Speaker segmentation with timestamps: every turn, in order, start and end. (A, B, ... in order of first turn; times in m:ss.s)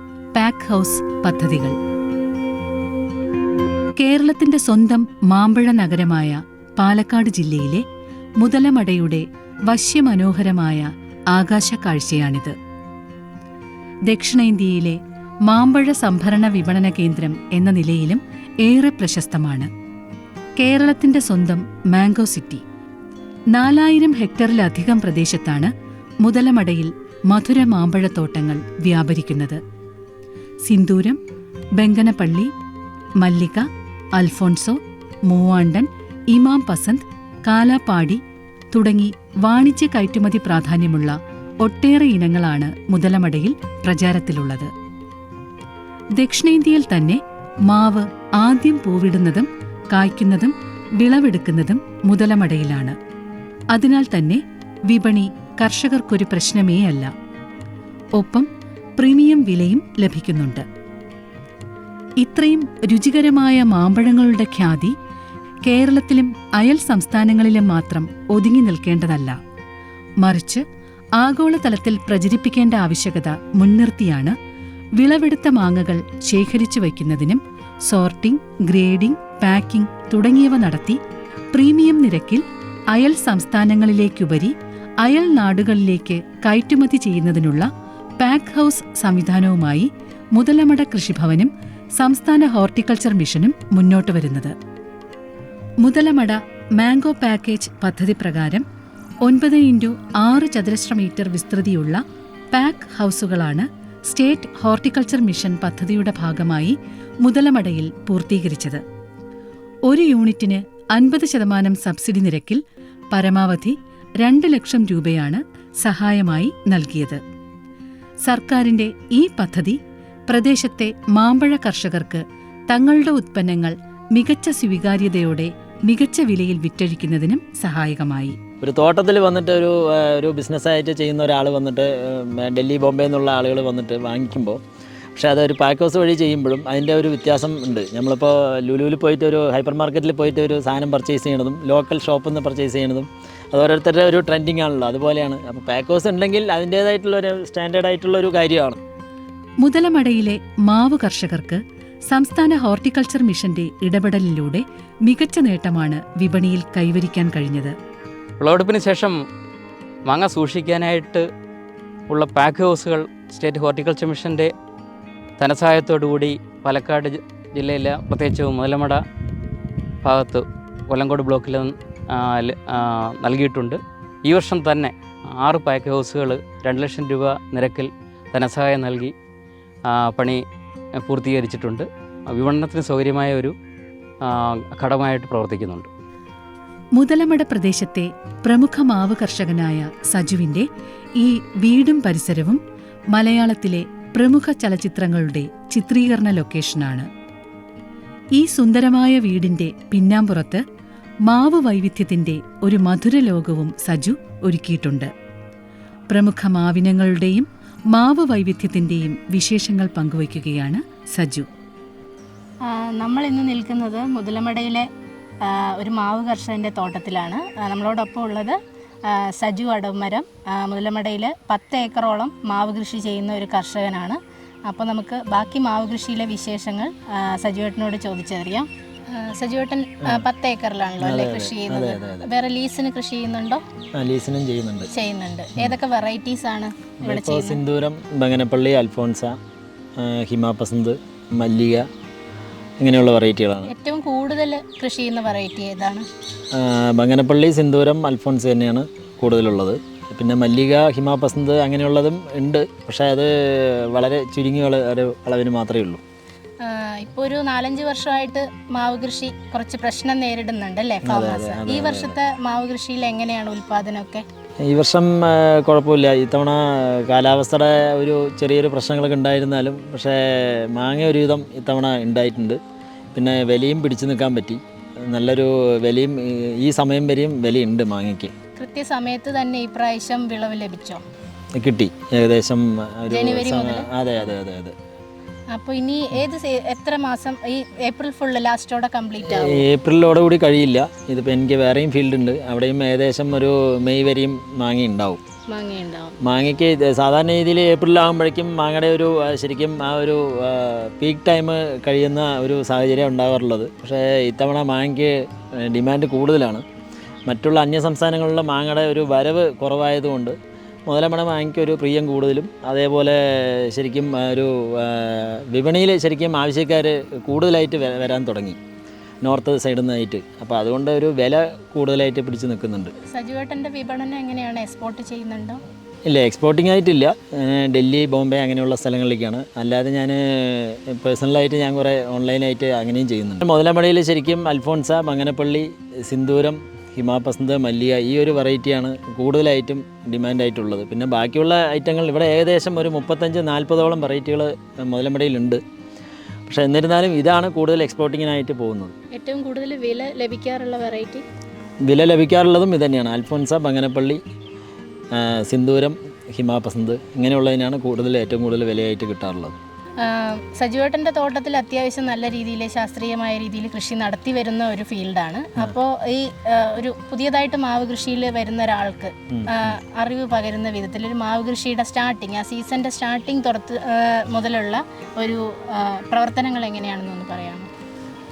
0:00.4-0:01.8 A
0:04.0-0:07.8 A
0:08.4-0:12.6 A
0:14.1-0:19.7 A
0:20.6-0:22.6 A
0:23.5-0:25.7 A
0:26.2-0:29.6 A
0:30.6-0:31.2 A
0:31.8-0:32.5 A
0:33.2-0:38.2 A
0:38.7-0:44.7 A
0:46.2-0:53.0 A
0:53.7-0:57.1 A
0:58.2-1:00.6 A
1:02.2-1:05.0 A
1:05.7-1:09.4 A
1:10.2-1:10.6 A
1:11.2-1:14.4 A
1:15.0-1:21.0 A
1:21.5-1:27.7 A
1:28.2-1:34.6 A
1:35.8-1:38.6 A
1:39.2-1:42.0 A
1:42.5-1:48.8 A
1:49.9-1:52.6 A
1:53.1-1:57.2 A
1:58.2-1:59.8 A
2:00.3-2:08.4 A
2:08.6-2:14.6 B
2:15.2-2:28.8 B
2:29.6-2:37.8 A
2:38.4-2:39.2 C
2:40.0-2:41.3 C
2:42.1-2:44.5 C
2:45.4-2:49.0 C
2:50.0-2:59.1 C
2:59.9-3:00.4 C
3:01.0-3:03.6 C
3:04.2-3:05.9 C
3:07.0-3:10.7 A
3:11.2-3:12.6 A
3:13.1-3:17.1 A
3:18.4-3:20.6 A
3:21.3-3:25.1 A
3:26.1-3:31.5 A
3:32.7-3:34.9 D
3:35.4-3:53.6 D
3:51.0-3:52.3 B
3:54.0-3:54.9 B
3:54.9-3:57.6 D
3:57.0-3:59.4 B
4:00.0-4:01.9 B
4:02.8-4:03.7 B
4:03.7-4:06.1 D
4:06.5-4:16.0 B
4:16.6-4:24.2 D
4:21.0-4:22.2 B
4:24.6-4:32.6 B
4:33.2-4:38.3 B
4:38.6-4:41.0 D
4:41.6-4:44.8 B
4:43.1-4:43.9 D
4:45.5-4:49.6 D
4:49.3-4:55.2 B
4:55.5-4:56.2 D
4:56.2-5:06.6 B
5:07.3-5:10.4 B
5:10.9-5:18.6 B
5:19.2-5:22.9 B
5:23.1-5:25.6 D
5:26.1-5:45.6 B
5:46.5-5:48.9 B
5:49.2-5:51.2 D
5:51.8-5:54.2 B
5:55.1-5:59.6 B
6:00.0-6:17.7 D
6:09.3-6:09.7 B